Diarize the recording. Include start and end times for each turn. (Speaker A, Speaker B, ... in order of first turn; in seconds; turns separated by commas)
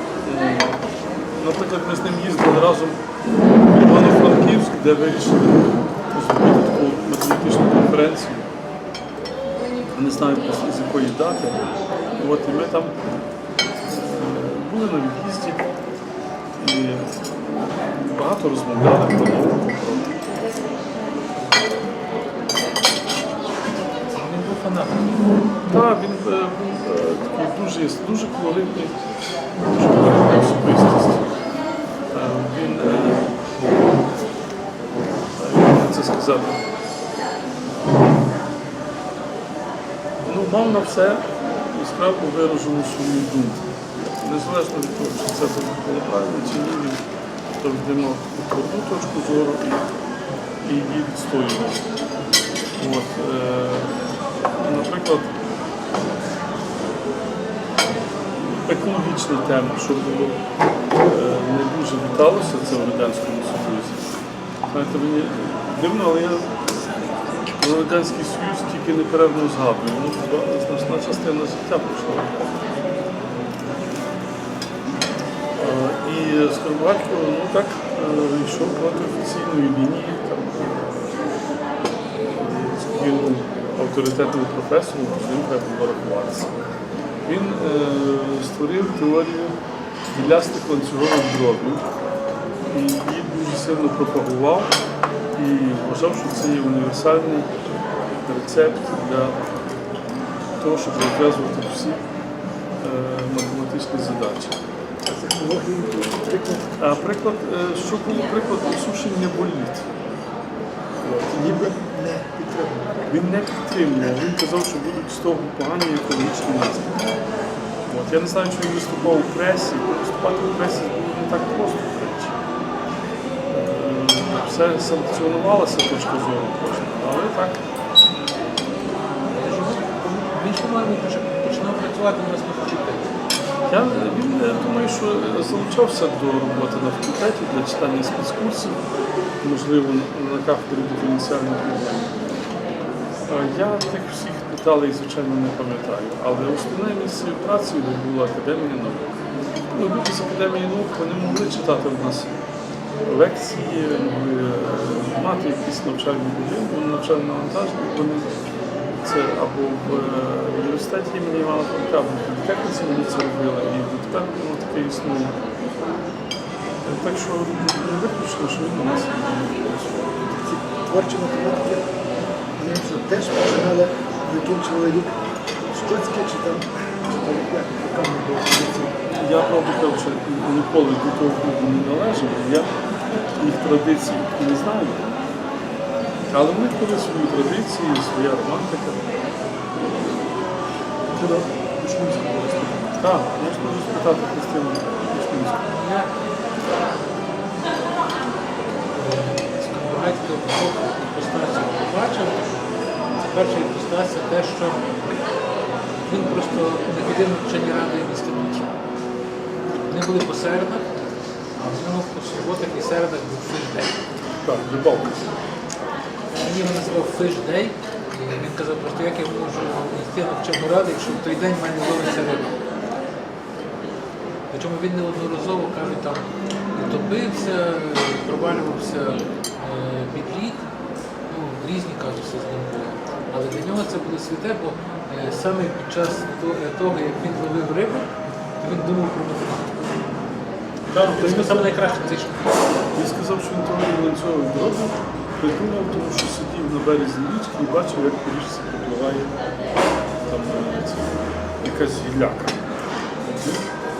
Speaker A: 0.2-3.0, Speaker A: 3.7-8.5, Speaker A: 9.9-13.0, Speaker A: 13.8-15.7, Speaker A: 16.6-17.2, Speaker A: 18.1-20.3, Speaker B: 24.1-25.2, Speaker A: 25.7-31.4, Speaker A: 32.1-33.3, Speaker A: 35.4-36.6, Speaker A: 40.2-43.6, Speaker A: 44.2-47.0, Speaker A: 47.6-49.8, Speaker A: 50.6-51.9, Speaker A: 52.8-54.0, Speaker A: 54.5-55.3, Speaker A: 58.3-60.4, Speaker A: 61.0-64.0, Speaker A: 64.7-66.6, Speaker A: 67.6-72.7, Speaker A: 75.6-81.0, Speaker A: 82.4-86.7, Speaker A: 87.2-89.6, Speaker A: 90.1-91.9, Speaker A: 92.7-94.7, Speaker A: 95.3-97.5, Speaker A: 98.2-99.5, Speaker A: 100.6-102.0, Speaker A: 102.8-104.6, Speaker C: 105.1-106.9, Speaker A: 106.8-109.9, Speaker A: 111.0-111.5, Speaker C: 111.3-113.1, Speaker A: 113.1-117.1, Speaker A: 117.9-122.4, Speaker A: 123.5-127.6, Speaker B: 129.3-133.1, Speaker A: 133.7-138.8, Speaker A: 139.4-142.1, Speaker A: 143.3-149.1, Speaker A: 149.7-152.3, Speaker A: 153.1-158.3, Speaker A: 159.0-165.4, Speaker A: 166.8-170.1, Speaker C: 170.3-171.9, Speaker C: 172.6-175.2, Speaker C: 175.7-179.0, Speaker A: 179.1-182.7, Speaker A: 183.4-185.1, Speaker A: 186.3-189.0, Speaker C: 191.1-192.9, Speaker A: 193.0-195.7, Speaker B: 195.7-196.1, Speaker B: 198.9-205.0, Speaker B: 206.1-208.7, Speaker B: 209.9-210.9, Speaker B: 211.6-214.0, Speaker A: 214.4-215.3, Speaker B: 216.3-222.5, Speaker B: 224.5-230.6, Speaker B: 231.3-238.1, Speaker B: 238.6-239.8, Speaker A: 240.9-241.8, Speaker B: 241.0-242.5, Speaker A: 242.9-249.4, Speaker A: 250.2-252.6, Speaker A: 253.2-253.7